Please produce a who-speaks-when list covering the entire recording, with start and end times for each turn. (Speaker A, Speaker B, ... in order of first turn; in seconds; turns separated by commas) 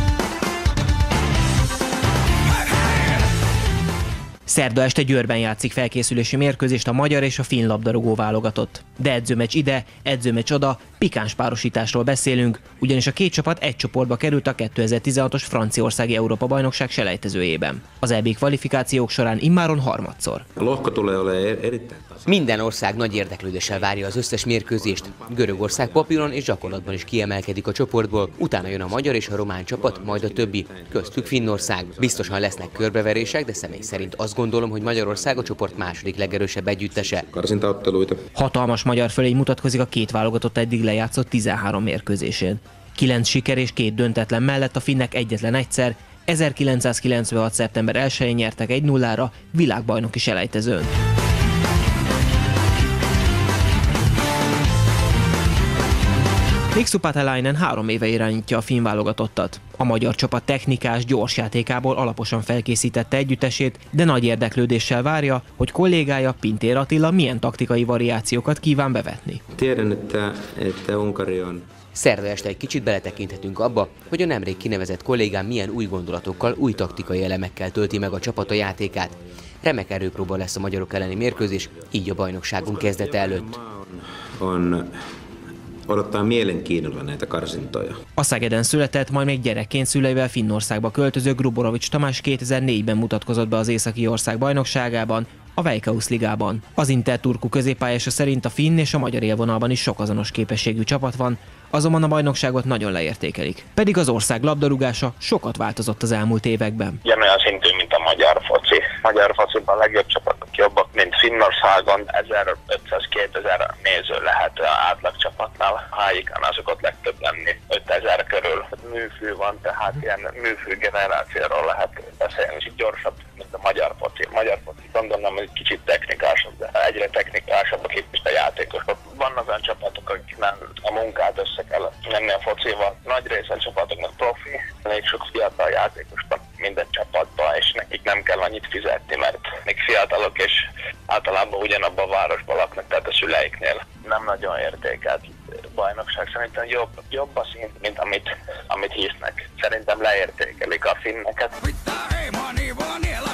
Speaker A: 4.5-20.5, Speaker B: 20.6-38.2, Speaker C: 22.3-37.2, Speaker A: 38.4-50.9, Speaker A: 56.7-69.4, Speaker B: 69.5-71.7, Speaker C: 71.9-83.5, Speaker B: 72.4-74.7, Speaker B: 76.5-79.2, Speaker B: 81.1-81.8, Speaker B: 82.5-84.9, Speaker B: 85.9-88.0, Speaker A: 88.2-107.0, Speaker D: 107.0-151.6